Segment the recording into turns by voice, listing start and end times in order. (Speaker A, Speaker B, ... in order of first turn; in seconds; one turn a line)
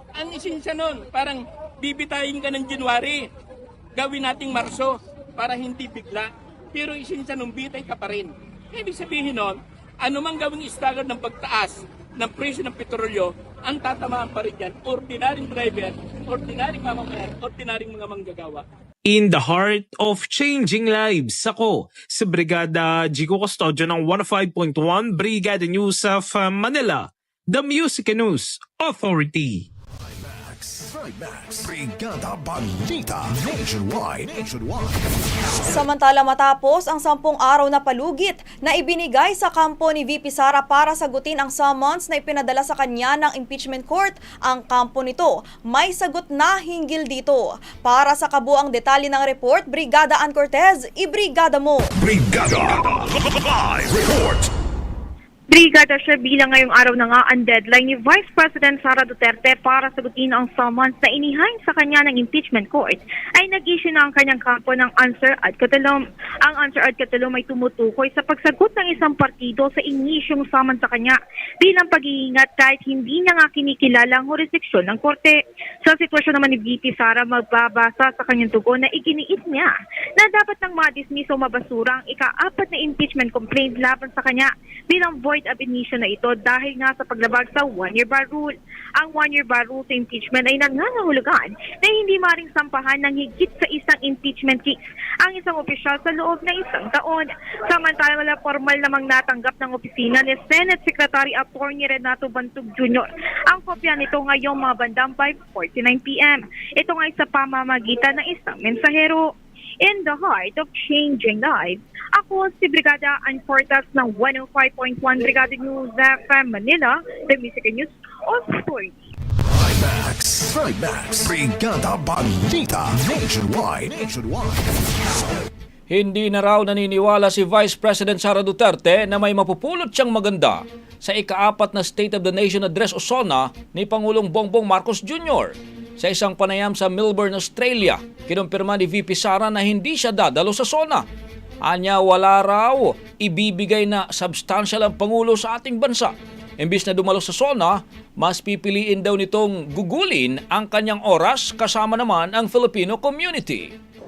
Speaker A: 0.2-3.3
Speaker A: 4.0-18.6
Speaker B: 19.1-29.7
Speaker C: 30.0-35.1
Speaker D: 35.7-51.9
Speaker C: 52.0-53.0
Speaker C: 54.0-54.4
Speaker E: 55.5-109.3
Speaker E: 109.8-119.1
Speaker C: 119.5-124.8
Speaker F: 125.9-141.1
Speaker F: 141.6-153.7